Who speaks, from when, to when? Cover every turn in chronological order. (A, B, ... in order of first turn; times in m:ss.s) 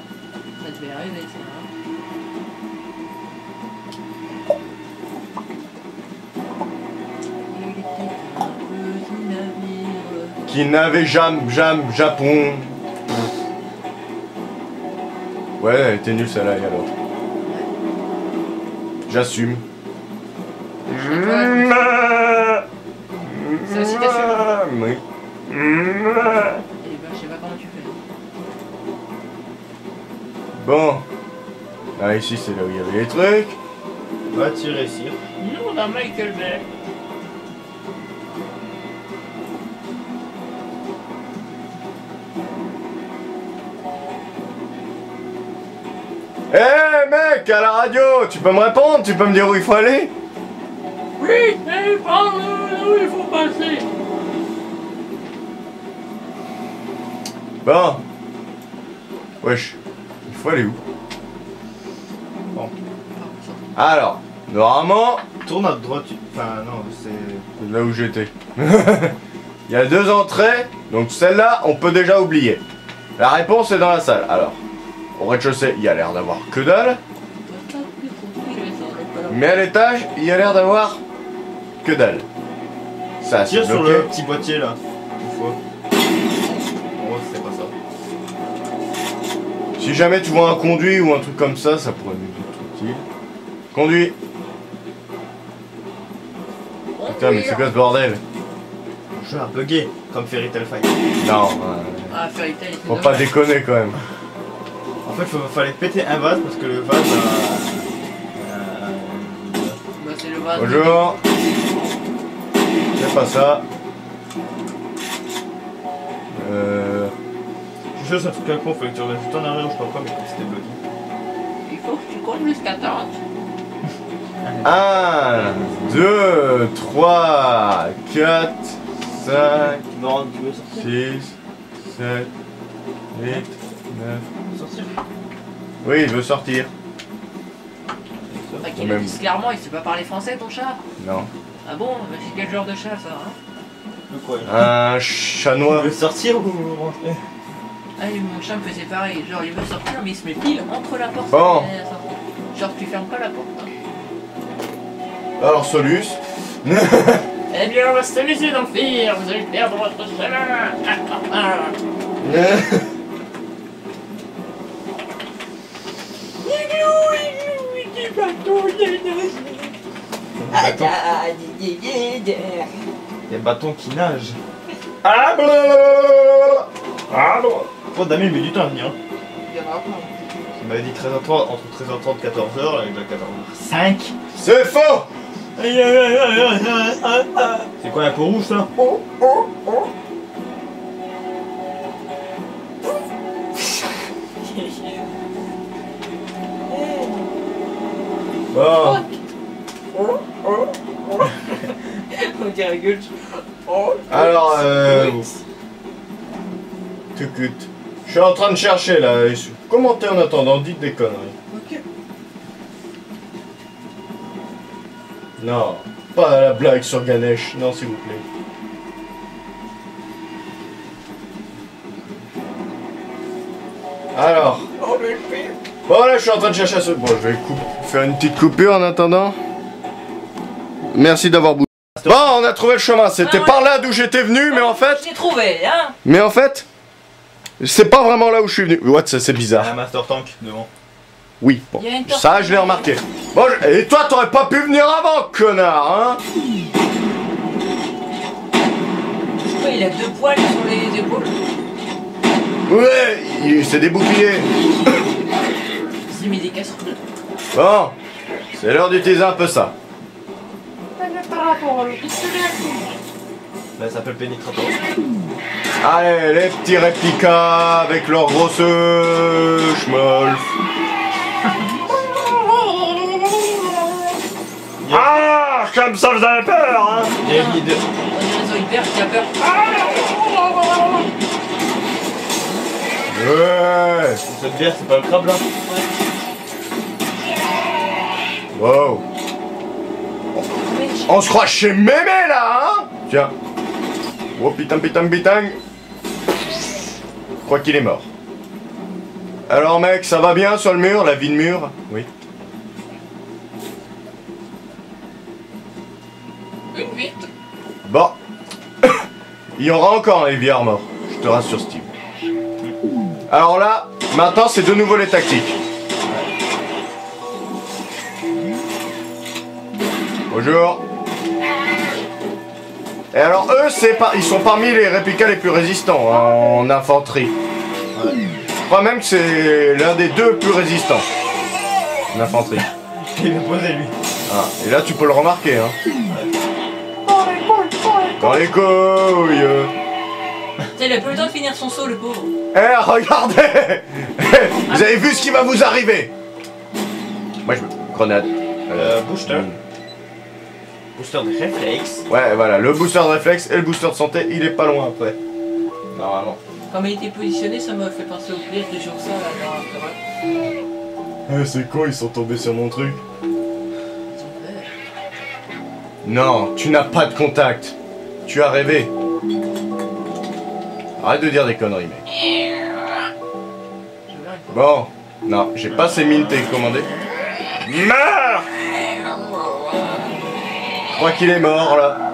0:00.6-0:01.7 A
0:07.4-0:10.4 A
0:10.5-0:13.1 B
0:15.6-0:16.9 B
0:17.4-0:17.7 A
0:19.1-0:19.6 B
0:20.9-0:22.6 B
0:20.9-0:22.4 A
0:23.2-0:26.6 B
0:23.6-0:24.5 A
0:26.8-0:28.0 A
0:30.5-0:31.0 B
0:32.0-0:33.6 B
0:34.3-0:35.2 C
0:35.4-0:36.6 A
0:46.5-0:50.1 B
0:51.2-0:53.8 A
0:57.6-0:58.0 B
0:59.4-1:00.8 B
1:03.1-1:03.6 A
1:03.8-1:05.2 B
1:05.4-1:07.4 C
1:07.6-1:09.2 B
1:09.7-1:12.6 B
1:13.2-1:14.6 B
1:15.2-1:17.0 B
1:17.4-1:19.6 A
1:19.3-1:21.0 B
1:21.8-1:22.2 B
1:23.2-1:24.1 B
1:23.4-1:25.6 C
1:27.0-1:27.7 C
1:29.8-1:33.0 B
1:33.7-1:34.1 B
1:37.0-1:37.8 A
1:37.1-1:38.2 B
1:39.1-1:40.9 C
1:41.2-1:42.2 B
1:42.1-1:43.3 A
1:42.8-1:44.0 B
1:45.0-1:49.8 C
1:50.0-1:51.1 A
1:50.6-1:51.2 B
1:53.0-1:53.6 B
1:56.3-1:57.1 B
1:58.0-2:00.8 C
2:01.6-2:03.2 A
2:04.4-2:04.8 C
2:04.6-2:09.8 B
2:09.2-2:10.9 C
2:10.7-2:12.3 B
2:13.1-2:14.3 B
2:14.5-2:15.0 C
2:15.8-2:16.7 B
2:18.3-2:18.7 C
2:18.6-2:20.8 A
2:18.7-2:19.2 B
2:21.0-2:21.3 B
2:21.6-2:23.4 A
2:24.1-2:24.7 C
2:24.4-2:25.9 B
2:25.7-2:27.2 C
2:28.0-2:33.7 A
2:31.3-2:31.7 B
2:35.4-2:37.2 B
2:37.5-2:41.8 A
2:42.2-2:42.9 B
2:46.4-2:49.7 A
2:50.4-2:50.9 C
2:50.5-2:52.7 A
2:53.3-2:54.4 C
2:55.0-2:57.7 B
2:57.8-2:59.0 C
2:59.4-3:00.4 A
3:00.6-3:04.1 C
3:04.3-3:05.1 B
3:05.6-3:08.7 C
3:08.8-3:09.5 B
3:14.4-3:15.1 A
3:16.7-3:17.3 A
3:18.5-3:19.0 B
3:18.8-3:19.2 A
3:19.9-3:25.4 A
3:24.1-3:25.3 B
3:27.1-3:31.3 B
3:31.5-3:31.8 A
3:35.4-3:38.2 B
3:44.1-3:44.7 B
3:44.8-3:45.6 A
3:45.8-3:49.4 B
3:50.8-3:55.0 B
3:53.2-3:53.8 A
3:54.5-3:56.0 A
3:56.0-3:56.6 B
3:57.6-3:59.7 B
3:59.5-4:00.7 C
4:01.4-4:06.2 B
4:01.7-4:02.9 A
4:09.4-4:11.3 A
4:12.7-4:14.9 B
4:16.0-4:17.0 A
4:17.5-4:17.9 B
4:18.5-4:19.7 B
4:21.0-4:22.9 A
4:23.8-4:24.8 C
4:25.8-4:30.6 B
4:32.6-4:33.8 B
4:34.8-4:35.2 C
4:34.9-4:37.2 B
4:37.1-4:37.8 C
4:37.2-4:41.0 A
4:43.1-4:44.2 B
4:44.2-4:45.4 C
4:45.6-4:45.9 A
4:48.5-4:49.0 B
4:50.5-4:51.2 A
4:51.1-4:53.3 B
4:54.3-4:55.6 B
4:57.4-4:58.0 B
4:59.5-5:02.1 B
5:06.7-5:07.3 A
5:07.8-5:08.1 B
5:09.6-5:11.9 B
5:13.3-5:15.6 B
5:20.3-5:20.8 B
5:23.1-5:27.3 B
5:27.9-5:28.2 C
5:28.6-5:31.0 B
5:32.1-5:32.7 B
5:33.0-5:34.0 C
5:34.3-5:35.8 B
5:37.6-5:38.3 C
5:38.2-5:39.7 B
5:40.7-5:42.3 A
5:42.5-5:46.1 B
5:44.6-5:45.4 A
5:47.4-5:49.6 B
5:48.7-5:49.5 C
5:50.9-5:52.1 C
5:52.1-5:55.2 B
5:55.9-5:56.4 B
5:56.7-6:00.5 A
6:01.3-6:03.0 B
6:04.1-6:04.7 A
6:06.0-6:08.9 B
6:11.0-6:12.0 B
6:14.1-6:14.7 A
6:14.5-6:16.9 B
6:17.6-6:18.5 B
6:20.9-6:22.0 B